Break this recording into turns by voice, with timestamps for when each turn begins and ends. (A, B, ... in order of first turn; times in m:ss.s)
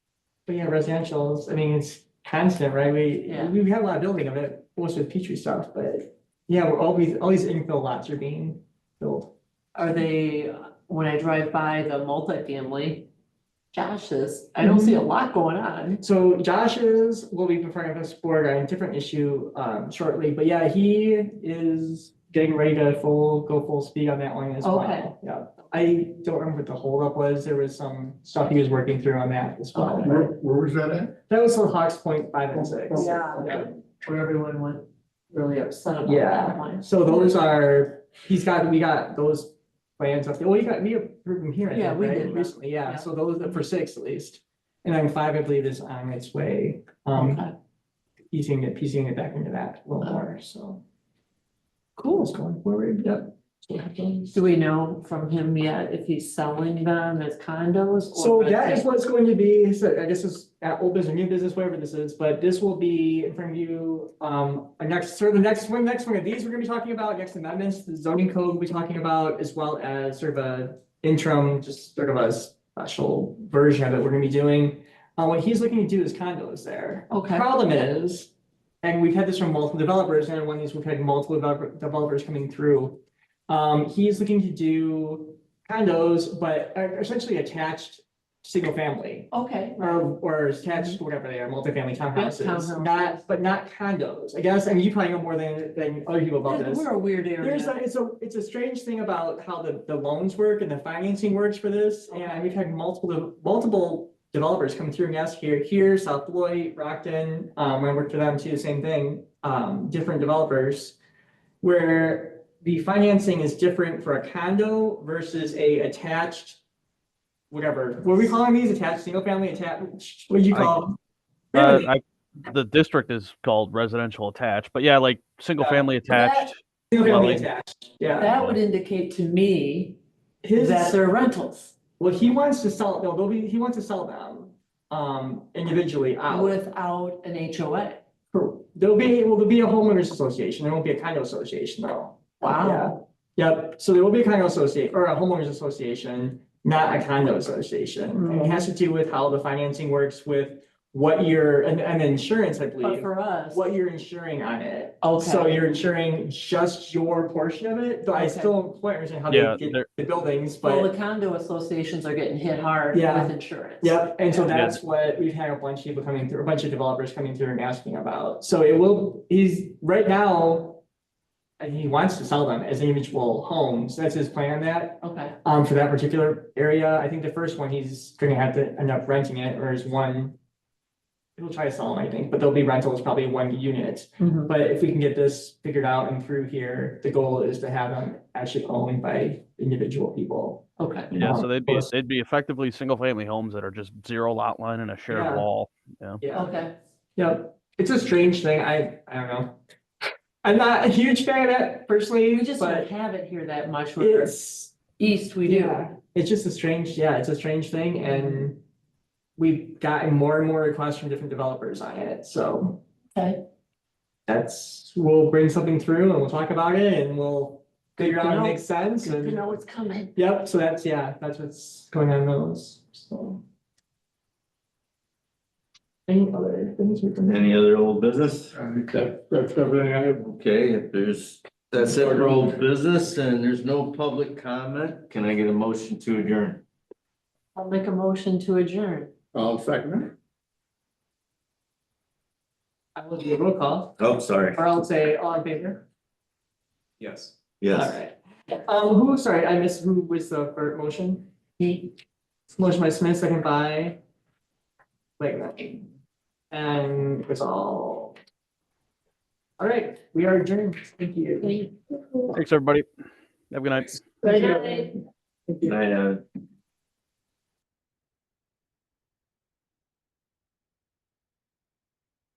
0:00.5-0:09.3 A
0:03.2-0:03.5 B
0:09.7-0:13.1 B
0:13.7-0:16.0 B
0:14.6-0:15.0 A
0:16.0-0:30.3 A
0:24.6-0:25.1 B
0:29.7-0:30.2 B
0:30.0-0:31.1 C
0:31.3-0:33.7 A
0:32.9-0:37.3 B
0:32.9-0:33.3 C
0:36.0-0:47.4 A
0:41.7-0:43.0 B
0:47.1-0:47.5 B
0:48.3-0:50.8 A
0:50.0-0:50.2 B
0:52.0-0:52.3 B
0:52.1-0:54.4 A
0:54.3-0:58.8 B
0:58.1-1:18.3 A
1:17.1-1:17.5 B
1:18.8-1:29.3 A
1:29.3-1:30.1 B
1:29.8-1:36.8 A
1:30.7-1:31.0 B
1:32.1-1:33.3 B
1:36.4-1:37.7 B
1:37.4-1:51.0 A
1:42.1-1:42.6 B
1:51.6-1:56.6 A
1:57.5-2:01.0 A
2:00.5-2:00.8 D
2:01.5-2:01.9 A
2:01.5-2:07.5 D
2:05.6-2:05.9 A
2:06.1-2:06.5 B
2:06.9-2:08.4 A
2:08.1-2:10.0 B
2:10.4-2:11.0 A
2:10.6-2:11.7 B
2:12.0-2:16.6 A
2:16.3-2:18.0 B
2:18.3-2:40.9 A
2:22.4-2:22.9 B
2:28.1-2:28.7 B
2:32.8-2:33.7 B
2:35.0-2:35.6 B
2:38.1-2:38.5 B
2:39.3-2:39.9 D
2:40.6-2:44.4 B
2:42.9-2:50.8 A
2:44.5-2:44.8 D
2:51.6-3:00.4 A
2:55.0-2:55.3 B
3:01.4-3:11.9 A
3:04.2-3:04.5 B
3:10.8-3:11.1 B
3:11.1-3:16.2 D
3:15.1-3:15.5 A
3:16.2-3:16.6 A
3:16.3-3:16.7 B
3:17.2-3:19.6 A
3:20.4-3:22.9 A
3:22.3-3:25.8 B
3:24.0-3:24.7 A
3:25.4-3:28.6 A
3:28.0-3:28.4 B
3:29.4-3:32.8 A
3:33.1-3:33.4 B
3:34.3-3:39.4 A
3:38.0-3:40.1 B
3:40.2-3:43.4 A
3:46.1-3:47.6 A
3:47.2-3:48.5 E
3:48.5-3:50.2 C
3:50.2-3:56.6 E
3:51.8-3:52.5 C
3:57.6-3:59.1 B
3:59.3-4:00.1 C
4:03.0-4:04.0 A
4:04.0-4:04.6 E
4:04.5-4:05.8 A
4:07.0-4:11.2 A
4:07.6-4:08.0 E
4:11.6-4:11.9 B
4:12.5-4:14.0 A
4:15.2-4:15.9 A
4:16.5-4:18.1 A
4:19.6-4:21.5 A
4:21.4-4:21.7 B
4:22.3-4:22.8 D
4:23.5-4:24.1 D
4:24.2-4:24.9 B
4:24.2-4:24.8 A
4:25.6-4:26.2 E